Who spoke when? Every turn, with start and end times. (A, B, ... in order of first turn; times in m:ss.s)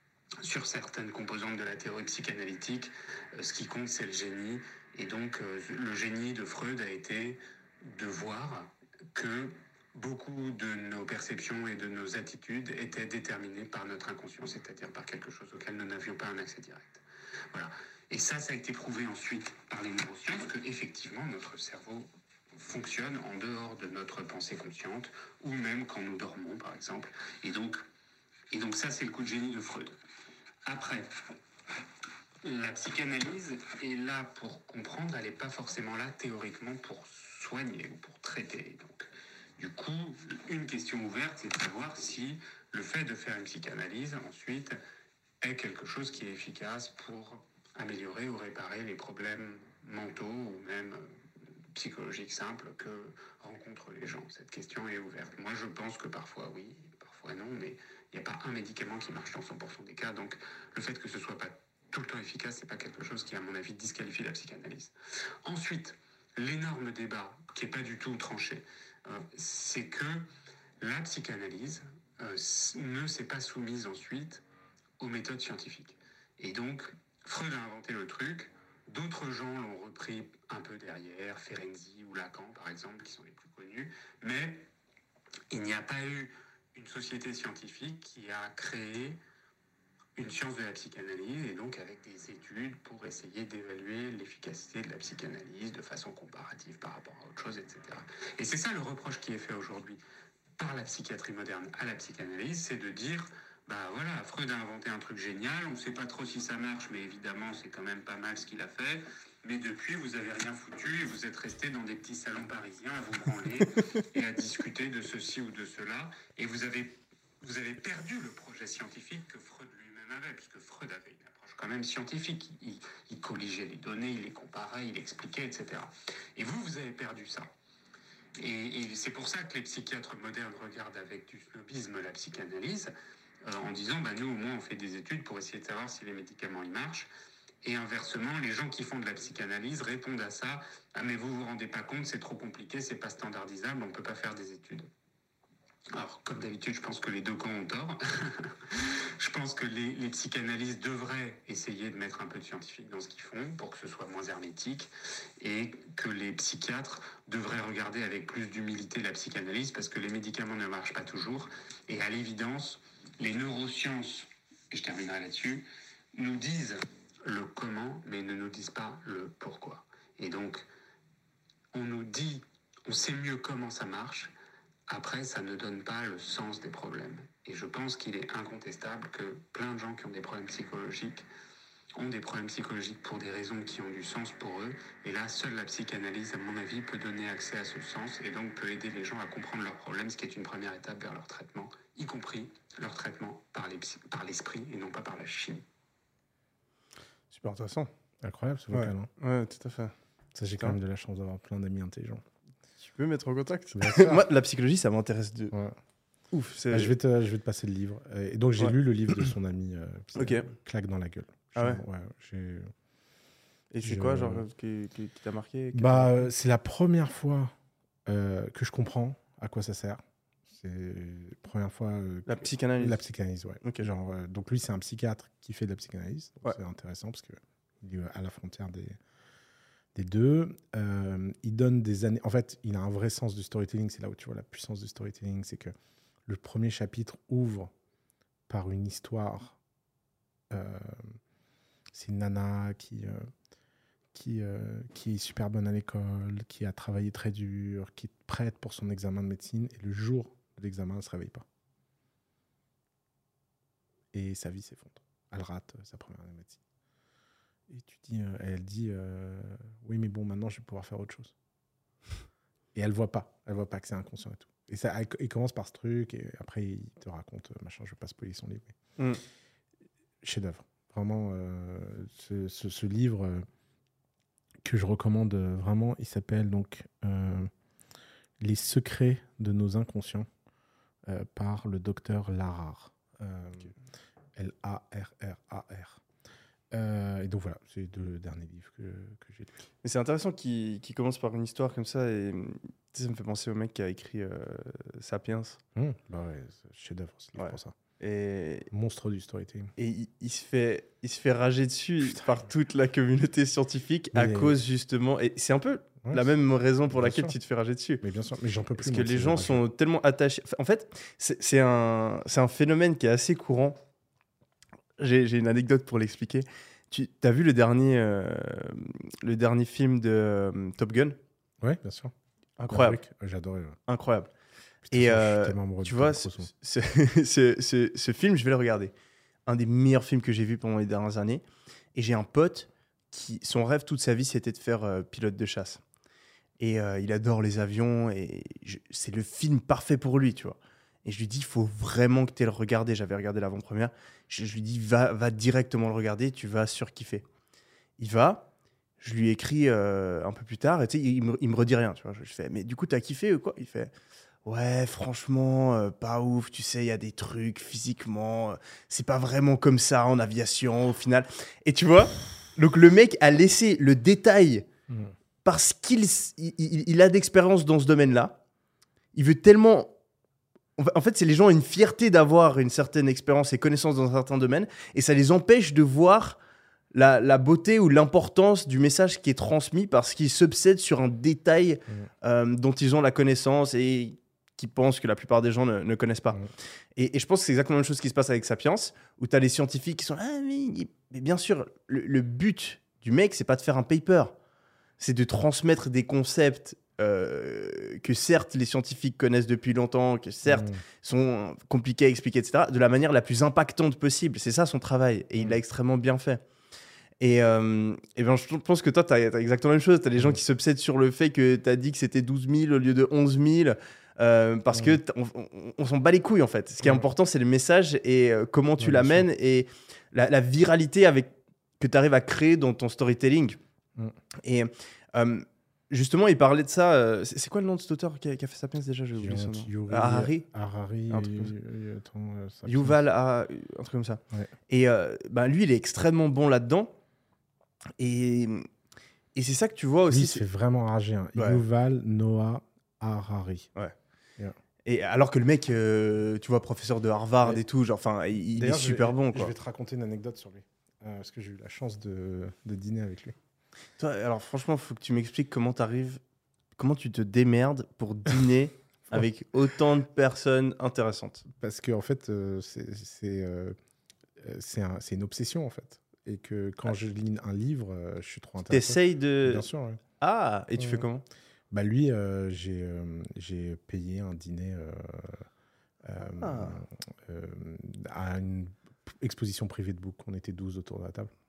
0:00.4-0:17.0 A
0:17.5-0:27.8 A
0:28.5-0:30.0 A
0:30.6-0:31.1 A
0:32.4-0:44.8 A
0:45.4-0:51.1 A
0:51.7-1:04.9 A
1:05.4-1:10.3 A
1:10.8-1:14.4 A
1:15.0-1:24.7 A
1:25.5-1:29.2 A
1:30.2-1:40.0 A
1:40.6-2:07.5 A
2:08.4-2:12.9 A
2:13.4-2:17.1 A
2:17.6-2:24.9 A
2:25.9-2:50.7 A
2:51.7-2:54.3 A
2:54.9-3:01.3 A
3:02.0-3:15.6 A
3:17.3-3:19.1 B
3:18.7-3:20.0 C
3:20.4-3:22.2 B
3:22.8-3:25.5 C
3:23.8-3:24.2 B
3:26.3-3:27.0 C
3:26.7-3:32.7 B
3:28.6-3:29.3 C
3:30.2-3:30.5 C
3:31.6-3:31.8 C
3:33.7-3:36.2 C
3:33.8-3:34.4 B
3:35.7-3:37.5 B
3:38.1-3:49.0 B
3:42.3-3:43.0 C
3:43.6-3:43.9 C
3:50.0-3:55.7 B
3:56.3-3:57.7 B
3:58.5-3:59.6 B
4:00.5-4:01.2 B
4:01.9-4:03.3 B
4:04.1-4:11.4 B
4:14.1-4:16.6 B
4:17.7-4:21.3 B
4:22.8-4:28.8 B
4:30.2-4:33.5 B
4:34.6-4:37.5 B
4:38.4-4:40.3 B
4:41.1-4:43.7 B
4:44.4-4:46.0 B
4:46.7-4:49.6 B
4:49.8-4:55.6 C
4:55.8-4:57.8 B
4:57.4-4:58.7 C
4:58.7-4:59.7 B
4:59.8-5:08.0 C
5:02.0-5:02.3 B
5:04.1-5:04.6 B
5:06.0-5:06.3 B
5:06.9-5:07.4 B
5:08.0-5:09.6 B
5:08.8-5:13.8 C
5:15.0-5:21.2 C
5:21.6-5:22.1 B
5:22.6-5:23.0 C
5:22.7-5:23.8 B
5:23.9-5:24.3 C
5:24.8-5:26.5 B
5:24.9-5:28.9 C
5:29.5-5:35.8 C
5:36.6-5:47.2 C
5:48.0-5:48.5 C
5:49.0-5:53.9 C
5:54.4-6:04.7 C
6:04.9-6:05.1 B
6:05.4-6:08.4 C
6:09.2-6:09.9 C
6:10.8-6:16.4 C
6:16.9-6:26.4 C
6:27.0-6:34.4 C
6:35.0-6:46.4 C
6:40.5-6:40.8 B
6:47.2-7:03.6 C
6:56.8-6:57.1 B
6:58.8-6:59.3 B
7:04.4-7:10.5 C
7:09.2-7:13.0 B
7:11.1-7:11.5 C
7:12.7-7:16.9 C
7:18.0-7:18.7 C
7:19.4-7:20.4 C
7:20.1-7:23.7 B
7:21.4-7:21.6 C
7:24.9-7:29.5 C
7:28.5-7:33.4 B
7:34.0-7:36.2 C
7:36.8-7:41.4 C
7:41.5-7:43.8 B
7:44.4-7:50.0 B
7:48.7-7:49.7 C
7:50.2-7:51.2 C
7:50.8-7:51.1 B
7:51.7-7:55.4 B
7:56.0-8:01.3 B
7:56.4-7:56.8 C